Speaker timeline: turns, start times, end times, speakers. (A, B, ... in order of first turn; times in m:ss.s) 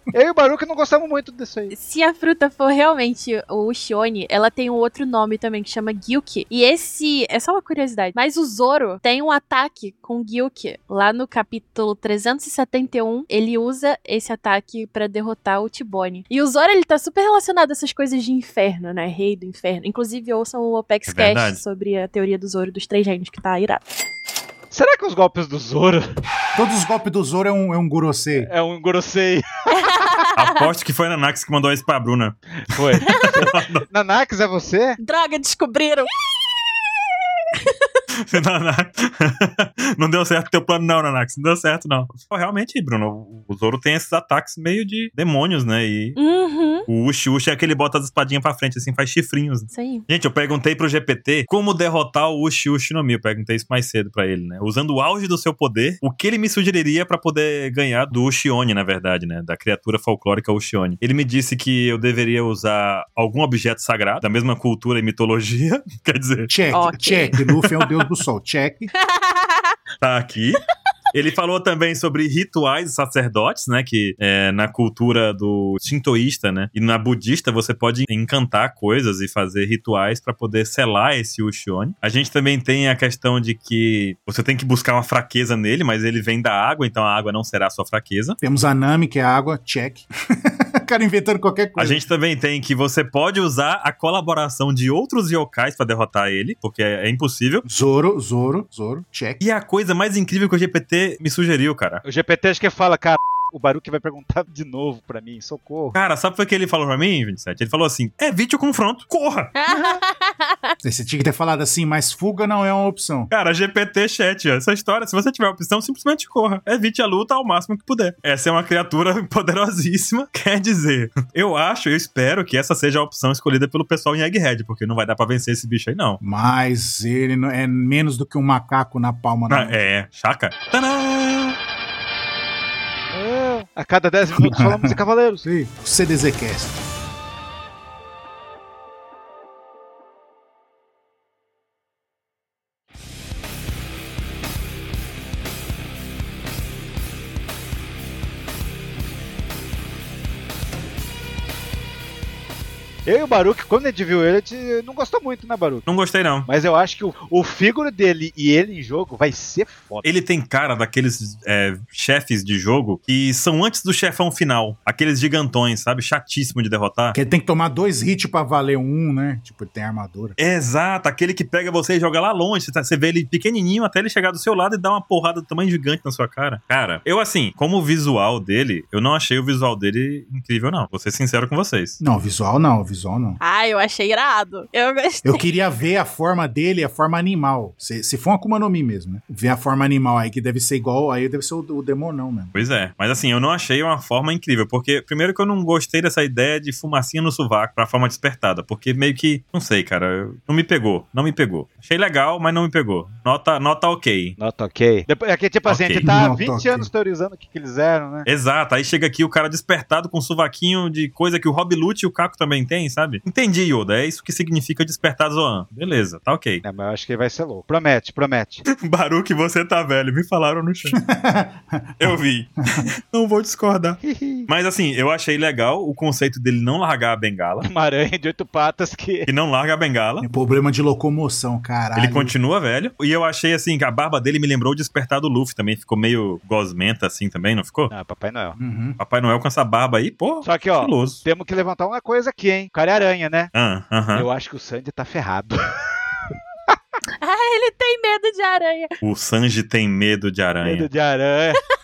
0:00.1-0:01.7 A
0:01.7-0:23.8 B
0:21.1-0:21.6 C
0:24.7-0:26.1 A
0:26.5-0:28.5 D
0:28.4-0:29.9 A
0:29.7-0:30.7 B
0:30.4-0:32.4 C
0:32.6-0:35.0 A
0:33.0-0:33.4 B
0:33.0-0:33.8 C
0:35.0-0:36.1 B
0:38.2-0:46.2 C
0:46.2-0:46.9 B
0:46.9-1:06.5 C
0:49.7-0:50.0 B
1:06.5-1:08.9 D
1:06.7-1:07.4 B
1:07.4-1:07.9 C
1:09.0-1:09.7 B
1:10.0-1:10.6 C
1:11.1-1:28.4 C
1:28.4-1:32.0 D
1:31.8-1:37.6 C
1:37.6-1:39.4 D
1:39.4-1:42.0 C
1:42.0-1:46.0 A
1:45.9-1:49.5 C
1:49.5-1:50.7 B
1:49.7-1:50.0 A
1:50.8-1:53.3 D
1:53.3-2:06.2 C
2:06.2-2:09.8 D
2:09.5-2:11.6 C
2:13.1-2:15.4 A
2:14.4-2:16.8 D
2:33.0-2:35.9 A
2:35.8-2:36.5 C
2:36.5-2:40.1 A
2:40.0-2:47.2 C
2:47.1-2:50.4 D
2:50.4-3:02.0 C
3:02.0-3:03.4 D
3:03.4-3:05.4 B
3:05.2-3:12.6 D
3:12.5-3:24.4 C
3:24.4-3:28.3 A
3:25.6-3:26.1 C
3:26.0-3:26.9 D
3:28.2-3:36.6 C
3:36.6-3:38.6 A
3:38.7-3:41.0 C
3:40.9-3:42.2 D
3:42.0-3:47.7 C
3:44.0-3:44.5 A
3:47.6-3:49.3 A
3:49.2-3:50.2 C
3:50.2-3:52.3 D
3:52.0-3:57.9 C
3:57.9-3:58.6 A
3:58.6-3:59.0 D
3:59.0-4:01.2 C
4:00.4-4:03.5 A
4:03.5-4:04.3 C
4:04.1-4:05.6 A
4:07.2-4:08.9 B
4:09.0-4:10.9 C
4:10.6-4:11.6 A